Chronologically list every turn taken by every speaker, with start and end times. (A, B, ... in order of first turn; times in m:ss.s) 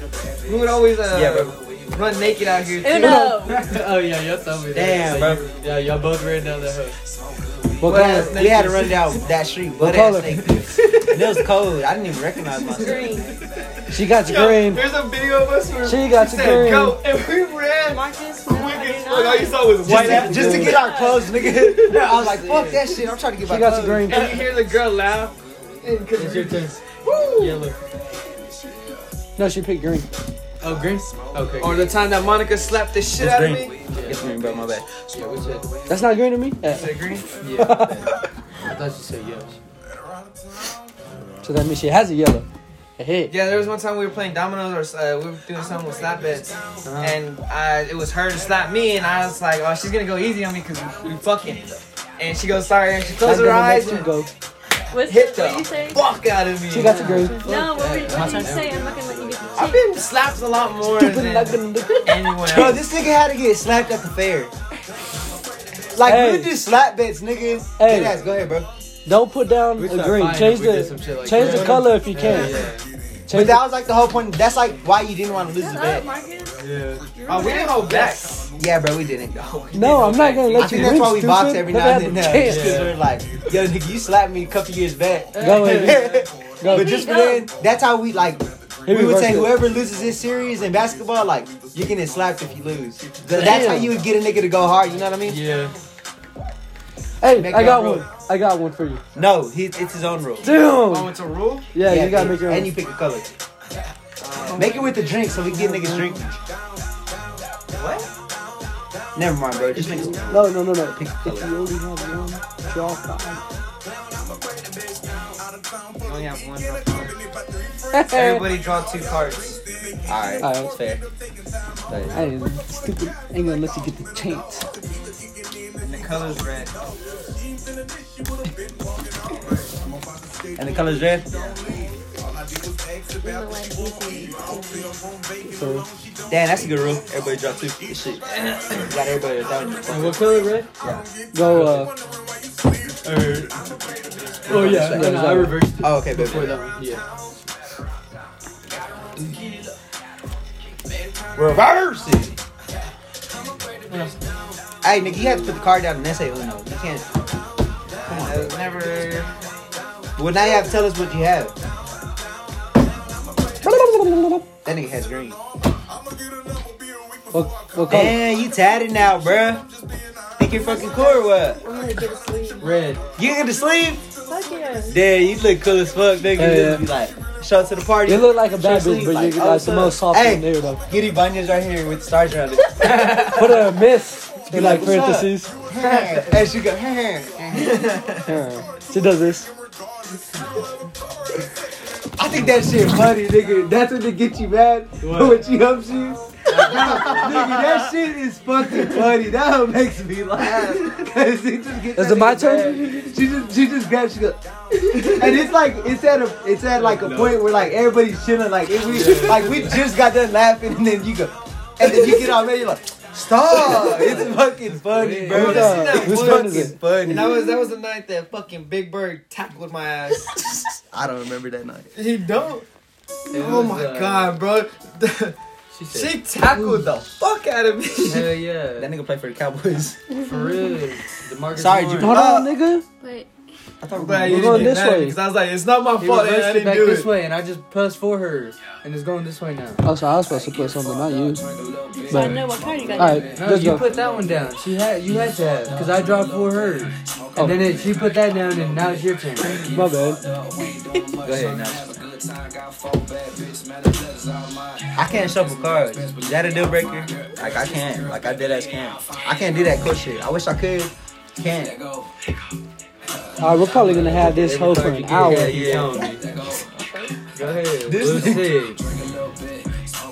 0:00.4-0:03.3 A
0:01.1-0:01.5 B
0:02.8-0:03.7 C
0:03.0-0:03.6 D
0:03.5-0:07.0 E
0:04.7-0:05.4 B
0:07.8-0:08.3 D
0:07.8-0:09.2 A
0:07.8-0:13.2 B
0:09.8-0:10.4 D
0:10.7-0:11.4 A
0:12.7-0:13.4 C
0:12.8-0:13.2 A
0:13.9-0:14.8 D
0:14.0-0:22.9 A
0:15.8-0:17.0 D
0:17.8-0:21.5 C
0:19.8-0:24.2 B
0:20.0-0:20.8 D
0:23.4-0:24.5 D
0:24.0-0:27.7 A
0:26.1-0:26.8 E
0:27.4-0:27.7 E
0:29.4-0:30.1 D
0:30.6-0:32.0 E
0:31.6-0:33.7 A
0:33.2-0:34.8 B
0:33.9-0:35.7 E
0:35.9-0:38.1 D
0:36.6-0:37.3 A
0:37.4-0:38.1 E
0:38.6-0:39.6 E
0:41.4-0:42.4 D
0:43.0-0:43.3 D
0:43.3-0:54.1 A
0:46.8-0:47.2 E
0:53.2-0:54.3 D
0:54.9-0:56.1 C
0:55.0-0:57.2 A
0:56.7-0:57.5 D
0:56.8-0:59.7 E
0:57.2-0:59.9 C
0:58.1-0:58.6 B
0:59.6-1:02.8 A
1:00.8-1:02.8 D
1:02.4-1:04.5 B
1:05.9-1:08.7 B
1:06.0-1:06.5 D
1:07.8-1:08.2 D
1:09.0-1:12.6 D
1:09.8-1:12.8 E
1:13.3-1:13.6 D
1:13.3-1:16.0 B
1:15.5-1:16.6 C
1:16.6-1:17.0 E
1:17.2-1:18.4 C
1:17.3-1:18.4 A
1:18.6-1:19.8 B
1:19.6-1:20.2 A
1:19.7-1:22.9 D
1:19.8-1:20.9 E
1:20.5-1:35.4 B
1:22.4-1:22.9 E
1:25.4-1:26.2 E
1:25.4-1:26.0 D
1:26.6-1:27.1 D
1:26.6-1:27.5 C
1:28.8-1:29.6 D
1:33.3-1:34.0 D
1:35.2-1:35.7 E
1:37.2-1:39.0 D
1:37.3-1:38.0 B
1:39.1-1:40.5 B
1:40.4-1:41.1 D
1:40.8-1:41.7 A
1:41.7-1:42.7 D
1:41.8-1:43.3 B
1:44.2-1:44.9 A
1:44.5-1:46.2 B
1:45.5-1:46.3 D
1:47.7-1:48.1 A
1:49.1-1:51.5 B
1:49.8-1:53.4 D
1:56.0-1:57.2 A
1:57.9-1:58.5 D
1:58.1-1:59.6 A
2:00.0-2:01.0 B
2:00.4-2:00.7 D
2:01.9-2:02.2 B
2:02.1-2:04.7 D
2:05.8-2:06.7 A
2:10.6-2:11.3 B
2:11.3-2:11.6 A
2:13.2-2:14.9 C
2:15.4-2:15.8 D
2:16.3-2:18.2 B
2:18.7-2:20.2 B
2:19.8-2:20.7 E
2:21.3-2:21.9 D
2:21.5-2:21.8 E
2:24.5-2:27.0 E
2:24.5-2:25.0 B
2:24.6-2:25.6 D
2:25.8-2:26.6 B
2:31.4-2:32.4 B
2:33.9-2:34.2 E
2:34.8-2:37.0 B
2:38.0-2:38.5 B
2:38.1-2:39.3 A
2:40.2-2:41.5 B
2:43.6-2:44.4 D
2:44.6-2:45.4 B
2:47.3-2:48.2 D
2:47.9-2:49.6 B
2:50.4-2:51.6 B
2:50.4-2:52.7 C
2:52.6-2:53.0 E
2:53.2-2:54.0 B
2:54.2-2:55.0 C
2:54.9-3:03.5 B
2:56.3-2:56.8 D
2:58.1-3:00.8 D
3:02.8-3:03.4 E
3:03.2-3:05.5 D
3:04.5-3:08.2 B
3:05.8-3:06.2 A
3:07.5-3:08.2 A
3:08.2-3:09.5 D
3:12.2-3:24.4 B
3:15.0-3:15.4 E
3:16.5-3:17.6 E
3:16.5-3:17.9 A
3:20.4-3:21.0 A
3:21.9-3:22.9 D
3:24.9-3:37.3 B
3:26.8-3:27.7 E
3:28.8-3:29.9 E
3:33.6-3:34.2 A
3:33.7-3:35.8 E
3:35.3-3:40.3 A
3:35.3-3:36.8 D
3:40.5-3:41.9 B
3:41.9-3:42.6 A
3:43.3-3:44.4 E
3:43.3-3:45.3 A
3:45.7-3:46.2 E
3:45.9-3:48.4 A
3:48.0-3:48.9 E
3:48.8-3:50.0 B
3:50.2-3:50.6 C
3:50.2-3:52.2 E
3:51.5-3:52.5 B
3:52.0-3:52.8 D
3:53.8-3:54.8 B
3:53.9-3:57.1 A
3:54.2-3:55.2 D
3:56.0-3:59.8 E
3:59.8-4:01.4 D
4:01.9-4:03.3 C
4:02.1-4:02.4 D
4:02.9-4:03.9 D
4:03.3-4:09.6 E
4:09.7-4:10.2 D
4:10.7-4:11.0 C
4:11.2-4:12.0 B
4:14.9-4:21.8 B
4:23.4-4:25.7 D
4:24.0-4:26.2 E
4:25.2-4:26.0 B
4:25.2-4:26.0 A
4:26.8-4:27.1 C
4:27.3-4:28.8 E
4:27.8-4:28.6 B